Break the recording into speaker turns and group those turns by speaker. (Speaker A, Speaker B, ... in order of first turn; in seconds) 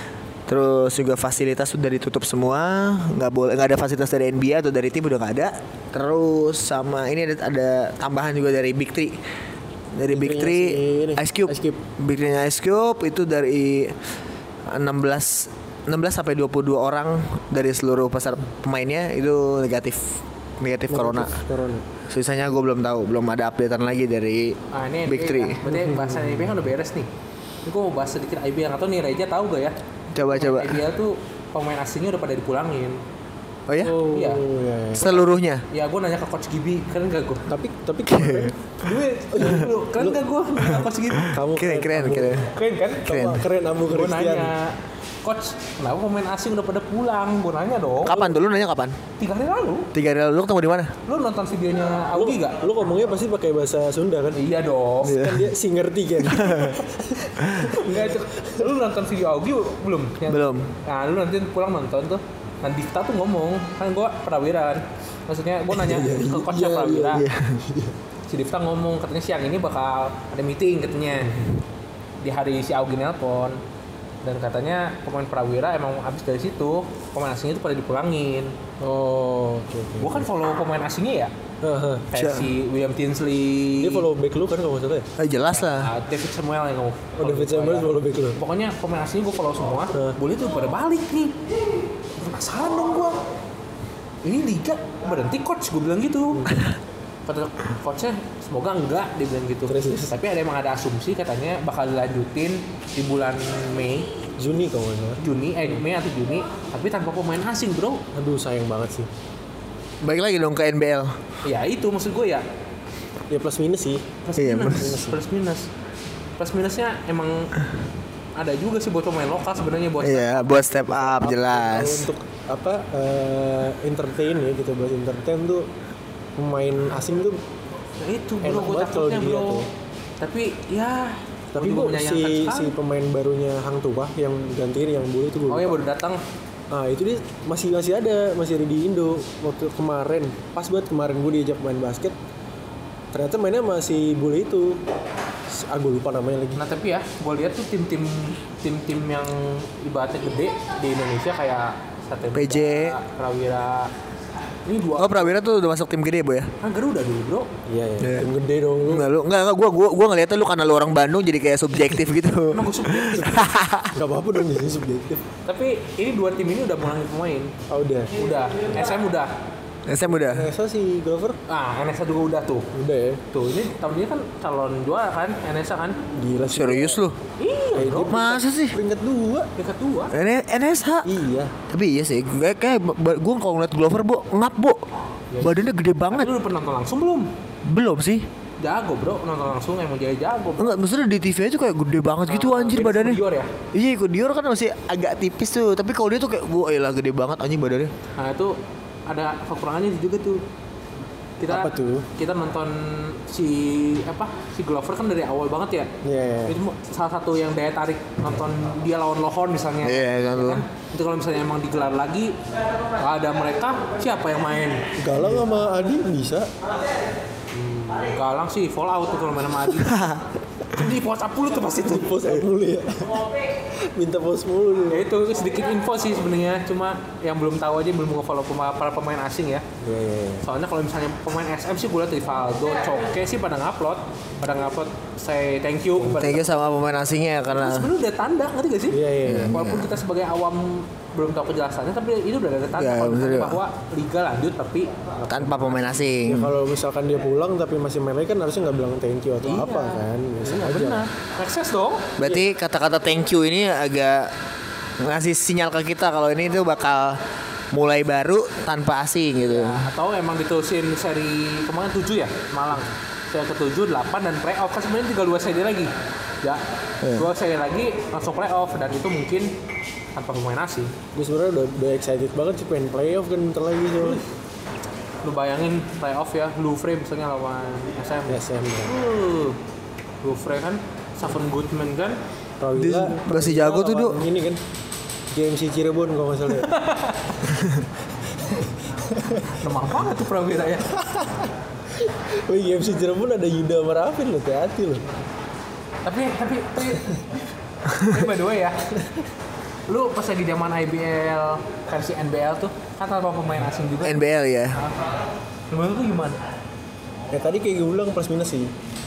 Speaker A: 0.5-9.2, 9.9-14.0, 14.7-21.4, 22.1-25.6, 30.1-30.8, 33.7-34.0, 35.0-35.6, 38.1-38.5, 41.2-42.5, 43.1-43.4, 48.0-49.0, 49.9-50.9, 55.0-55.4, 56.3-56.8, 57.4-57.7, 60.3-60.7, 67.1-67.6, 82.2-82.5, 85.2-85.9, 110.0-111.2, 114.4-114.8, 120.0-122.1, 152.3-152.9, 155.0-156.5, 158.0-158.3, 158.9-163.9, 169.9-170.5, 176.5-177.2, 178.1-178.8, 180.1-181.1, 181.7-184.8, 185.4-186.3, 187.7-188.3, 190.6-193.2, 193.7-197.9, 209.8-210.6, 219.8-220.2, 236.0-237.9, 239.2-239.9, 242.8-243.6, 245.3-246.5, 252.2-254.3, 255.0-257.2, 257.7-259.8, 267.0-267.3, 282.8-284.2, 304.0-304.8
Speaker B: 10.1-11.8, 20.9-21.9, 25.6-26.6, 33.8-35.2, 37.5-38.5, 39.3-40.2, 41.3-42.4, 43.0-44.5, 52.1-54.4, 55.0-58.7, 65.7-68.0, 71.1-71.5, 78.8-80.3, 81.6-82.1, 83.8-85.1, 87.2-88.4, 96.3-96.6, 99.7-100.2, 104.4-105.8, 108.2-109.1, 113.3-114.2, 114.7-115.2, 120.8-125.7, 126.4-127.4, 128.4-129.7, 131.5-135.8, 136.7-142.2, 143.1-144.8, 145.5-146.6, 157.7-159.1, 163.9-165.2, 167.7-168.1, 170.1-171.4, 172.7-173.2, 176.1-177.0, 177.8-179.5, 181.1-181.5, 201.5-202.1, 206.0-206.6, 215.0-216.5, 221.8-225.1, 229.8-230.5, 238.9-239.5, 246.2-251.1, 271.1-274.2, 278.3-279.0, 282.6-284.6, 285.3-286.7, 288.4-289.5, 290.9-295.1, 307.3-308.7
Speaker C: 24.7-27.1, 27.6-29.8, 30.3-33.0, 33.9-34.4, 35.7-37.4, 38.8-41.4, 42.5-43.0, 43.9-48.2, 49.2-49.9, 51.1-52.6, 54.3-55.2, 57.7-67.2, 68.3-71.4, 72.2-73.6, 74.2-78.5, 80.0-81.3, 82.1-84.1, 85.6-91.4, 92.2-93.2, 94.2-96.5, 97.3-104.1, 105.2-108.0, 111.4-112.5, 114.2-115.7, 116.4-117.5, 118.4-120.3, 128.0-129.7, 130.2-132.7, 135.5-136.2, 146.6-153.9, 154.7-155.3, 156.6-157.5, 162.5-163.5, 165.5-167.5, 168.2-169.3, 171.5-172.7, 173.3-176.0, 177.4-178.2, 179.6-180.1, 185.3-187.3, 188.6-190.8, 192.3-193.5, 198.2-200.4, 201.4-205.9, 206.5-212.4, 213.0-214.8, 217.6-220.0, 220.7-222.2, 224.9-229.7, 230.4-236.5, 237.5-244.9, 249.4-252.1, 259.5-266.6, 267.1-269.5, 270.1-270.9, 274.0-274.2, 275.2-279.6, 280.2-282.2, 286.6-287.4, 289.5-290.9, 296.1-297.2, 297.9-298.8, 299.9-304.2, 304.7-305.1, 305.7-306.4